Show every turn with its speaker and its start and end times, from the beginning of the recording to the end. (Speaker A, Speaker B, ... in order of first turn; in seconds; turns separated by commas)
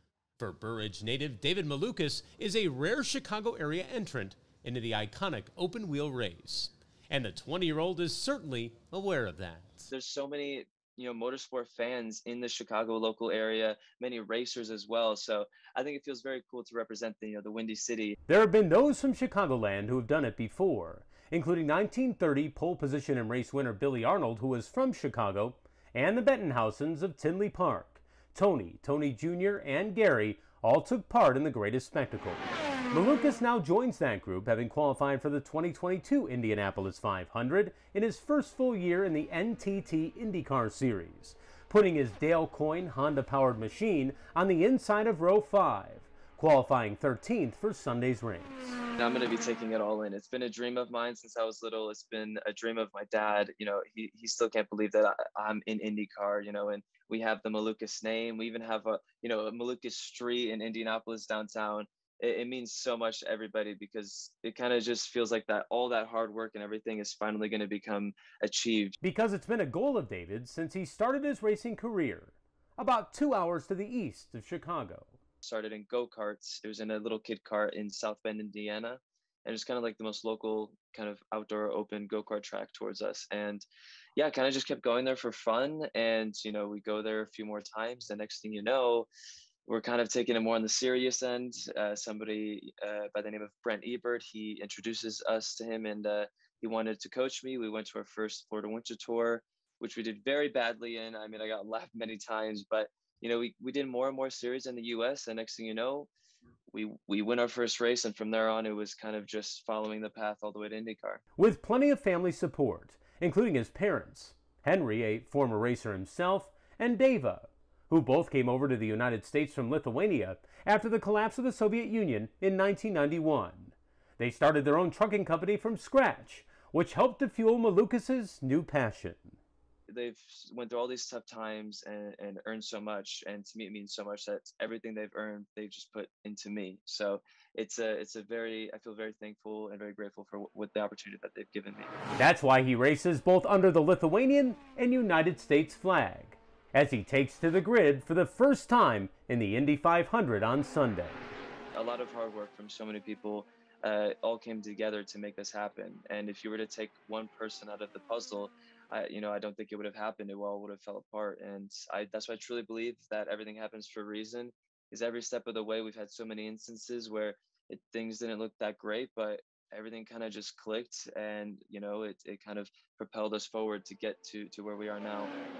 Speaker A: 0.4-9.9, Speaker B: 9.9-18.2, Speaker A: 18.3-48.7, Speaker B: 49.0-69.0, Speaker A: 69.0-75.2, Speaker B: 75.4-83.6, Speaker B: 84.2-89.1, Speaker B: 89.7-106.1, Speaker B: 106.7-111.2, Speaker A: 111.4-129.4, Speaker B: 129.9-141.9, Speaker A: 142.2-151.2, Speaker B: 151.7-175.3